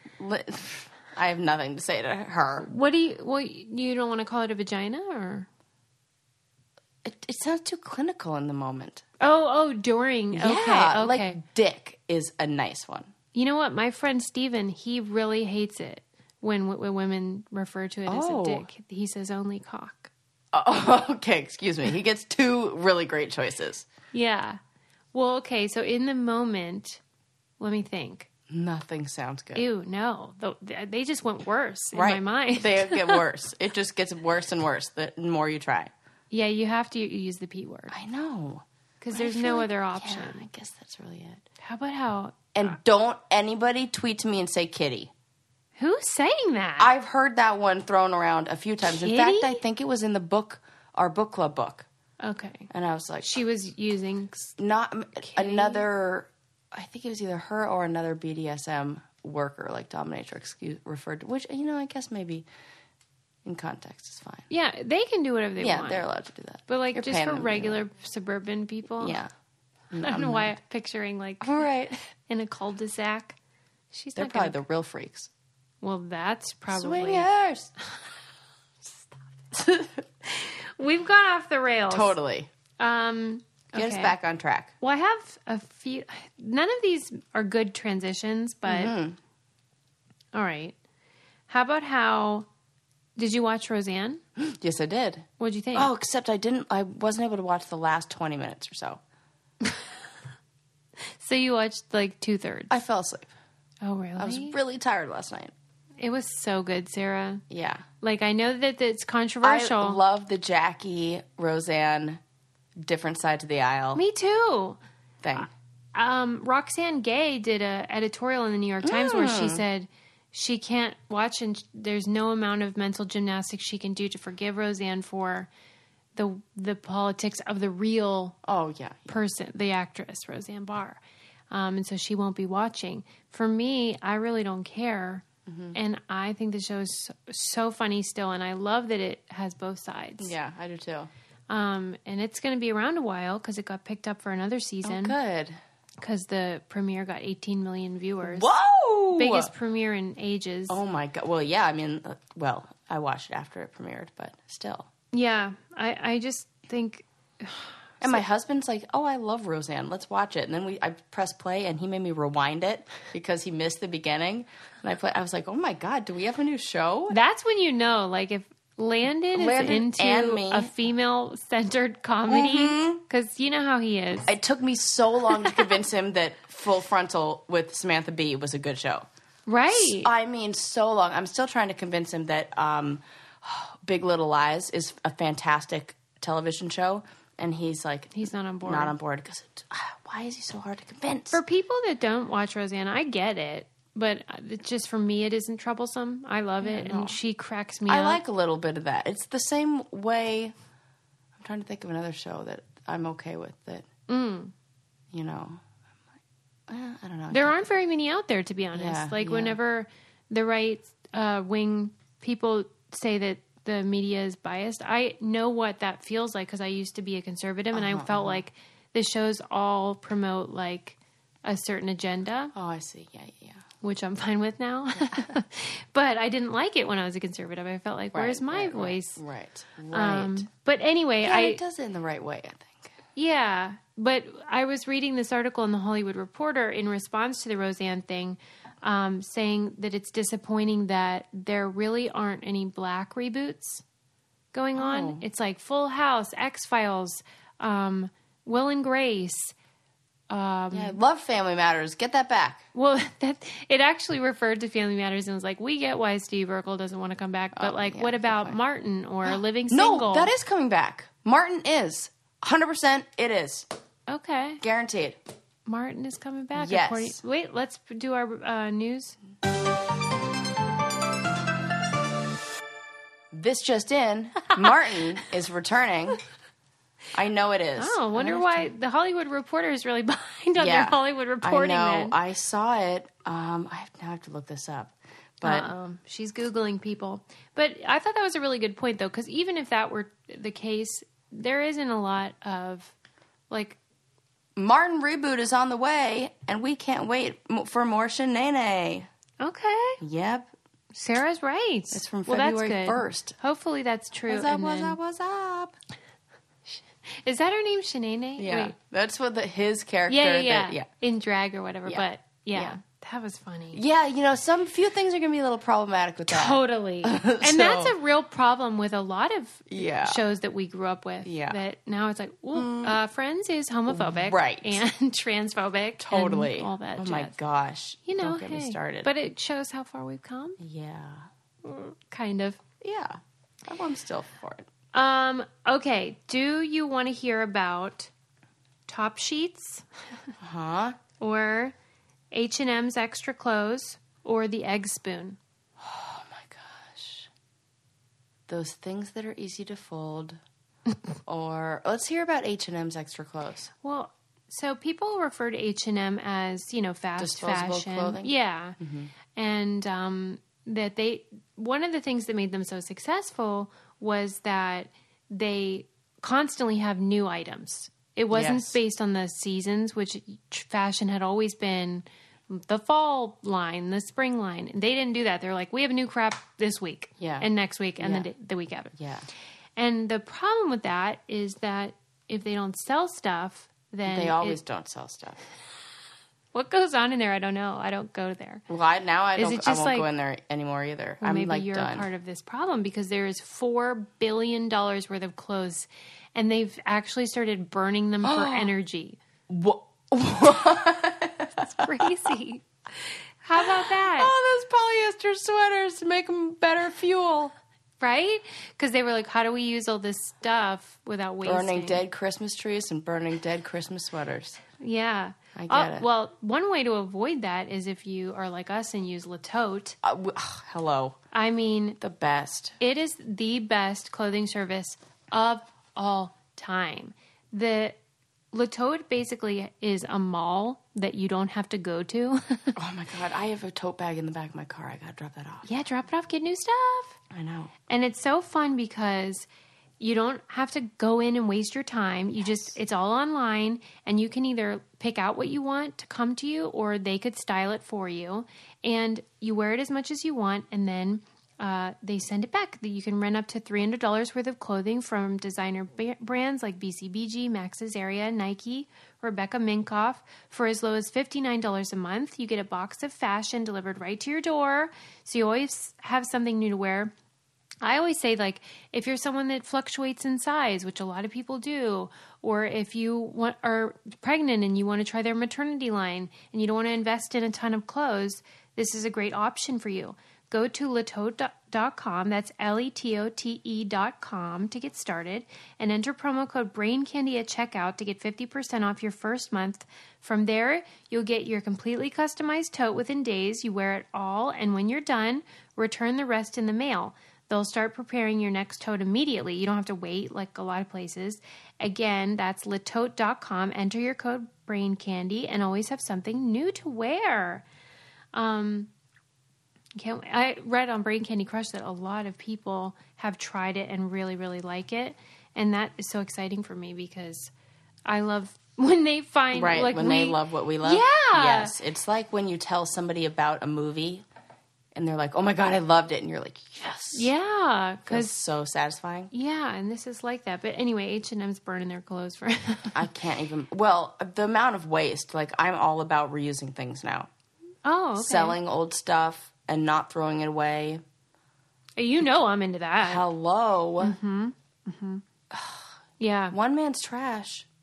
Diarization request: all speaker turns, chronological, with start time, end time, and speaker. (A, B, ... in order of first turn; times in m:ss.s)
0:00.2-0:02.7 A
0:02.6-0:05.5 B
0:07.0-0:09.0 A
0:09.2-0:11.4 B
0:10.3-0:13.1 A
0:13.3-0:20.1 B
0:18.1-0:18.7 A
0:20.5-0:23.9 A
0:24.1-0:24.6 B
0:25.1-0:27.0 B
0:27.6-0:28.3 B
0:28.5-0:29.7 A
0:29.6-0:33.2 B
0:31.9-0:35.9 A
0:36.3-0:37.9 B
0:37.9-0:41.4 A
0:39.0-0:40.5 B
0:41.6-0:42.5 B
0:42.6-0:45.1 A
0:45.8-0:46.9 B
0:46.8-0:51.9 A
0:48.9-0:49.6 B
0:52.2-0:52.7 B
0:52.7-0:53.3 A
0:53.2-0:54.6 B
0:54.6-1:02.5 A
0:55.2-0:55.8 B
1:03.4-1:04.5 A
1:04.5-1:06.1 B
1:05.6-1:07.8 A
1:06.7-1:09.2 B
1:09.0-1:09.3 A
1:09.9-1:10.6 A
1:10.0-1:13.4 B
1:11.4-1:11.9 A
1:13.9-1:14.6 B
1:14.2-1:15.3 A
1:15.8-1:17.3 B
1:16.7-1:17.7 A
1:19.5-1:20.0 A
1:20.3-1:22.2 B
1:21.9-1:22.5 A
1:22.8-1:24.2 B
1:23.7-1:24.7 A
1:24.8-1:28.9 B
1:28.7-1:29.2 A
1:30.3-1:30.8 B
1:31.5-1:32.5 B
1:33.2-1:34.2 B
1:34.4-1:39.0 A
1:35.4-1:35.9 B
1:41.2-1:42.8 B
1:42.7-1:43.3 A
1:43.8-1:44.6 B
1:44.2-1:45.5 A
1:46.0-1:47.4 B
1:47.5-1:47.8 A
1:48.0-1:50.0 B
1:49.4-1:52.2 A
1:52.8-1:54.0 A
1:54.0-1:54.8 B
1:55.2-1:55.5 A
1:55.4-2:05.5 B
1:58.8-1:59.6 A
2:06.2-2:08.4 B
2:08.4-2:09.2 A
2:09.1-2:11.0 B
2:11.5-2:20.3 B
2:15.5-2:15.8 A
2:20.2-2:21.1 A
2:21.5-2:25.2 B
2:24.8-2:25.6 A
2:26.0-2:28.5 B
2:28.2-2:29.5 A
2:29.1-2:30.8 B
2:30.7-2:34.9 A
2:35.1-2:38.2 B
2:38.0-2:47.2 A
2:47.1-2:54.3 B
2:49.3-2:50.7 A
2:52.3-2:53.0 A
2:54.3-2:59.1 A
2:59.5-3:00.1 B
2:59.7-3:11.4 A
3:08.1-3:08.9 B
3:11.3-3:18.2 B
3:16.6-3:17.2 A
3:17.9-3:20.5 A
3:21.4-3:23.9 A
3:24.1-3:24.5 B
3:25.1-3:25.6 A
3:26.7-3:27.6 A
3:27.3-3:42.5 B
3:28.8-3:29.6 A
3:37.7-3:38.4 A
3:42.5-3:43.6 A
3:43.8-3:49.2 B
3:45.0-3:45.3 A
3:48.1-3:50.5 A
3:49.9-3:51.6 B
3:51.2-3:52.9 A
3:53.2-4:03.8 B
4:04.5-4:09.5 B
4:04.8-4:05.2 A
4:10.3-4:11.0 B
4:10.7-4:12.7 A
4:12.8-4:20.3 B
4:17.6-4:18.6 A
4:19.3-4:23.7 A
4:24.1-4:24.6 B
4:24.6-4:25.2 A
4:25.7-4:29.2 B
4:26.6-4:27.2 A
4:33.3-4:36.2 A
4:37.1-4:38.7 A
4:37.8-4:42.2 B
4:40.6-4:45.7 A
4:45.4-4:52.9 B
4:53.5-4:53.8 B
4:54.6-4:59.1 A
4:59.4-5:00.0 B
5:00.0-5:00.5 A
5:00.9-5:05.0 B
5:01.9-5:03.4 A
5:04.3-5:05.7 A
5:06.7-5:08.8 B
5:08.4-5:10.9 A
5:10.1-5:13.8 B
5:11.9-5:12.8 A
5:13.7-5:18.0 A
5:16.3-5:27.4 B
5:19.7-5:20.2 A
5:21.2-5:21.6 A
5:22.5-5:23.0 A
5:23.9-5:24.8 A
5:26.0-5:29.1 A
5:28.1-5:30.6 B
5:30.6-5:31.3 A
5:31.6-5:32.6 B
5:32.8-5:34.7 A
5:34.9-5:38.1 B
5:38.9-5:39.8 B
5:40.4-5:41.0 A
5:41.2-5:41.8 B
5:42.3-5:45.4 B
5:45.8-5:47.3 A
5:48.5-5:50.4 A
5:51.3-5:53.7 A
5:53.8-5:58.8 B
5:57.2-5:59.1 A
5:59.3-6:18.9 B
6:08.3-6:08.8 A
6:17.2-6:17.5 A
6:18.0-6:18.3 A
6:19.0-6:19.3 A
6:19.8-6:24.6 B
6:24.1-6:25.4 A
6:26.5-6:28.6 B
6:28.7-6:32.1 A
6:29.4-6:30.1 B
6:31.2-6:39.2 B
6:38.2-6:38.7 A
6:39.5-6:42.0 A
6:41.6-6:44.3 B
6:43.6-6:47.5 A
6:48.0-6:52.0 B
6:51.4-6:54.6 A
6:54.8-7:00.0 B
6:55.6-6:56.1 A
7:00.0-7:01.2 A
7:01.3-7:02.0 B
7:02.0-7:02.8 A
7:02.8-7:08.0 B
7:08.5-7:12.8 B
7:12.8-7:15.7 A
7:15.6-7:17.2 B
7:17.3-7:17.7 A
7:17.9-7:19.5 B
7:20.0-7:47.1 B
7:47.8-8:27.6 B
8:28.3-8:28.9 B
8:30.0-8:37.5 B
8:38.1-8:41.8 B
8:39.5-8:44.2 A
8:44.9-8:47.3 A
8:47.1-8:48.4 B
8:48.1-8:49.3 A
8:49.3-8:53.0 B
8:52.9-8:57.3 A
8:57.8-8:58.6 B
8:58.2-9:01.0 A
9:02.0-9:03.2 B
9:03.0-9:04.2 A
9:04.0-9:05.2 B
9:05.5-9:05.9 A
9:06.2-9:06.6 B
9:06.5-9:07.7 A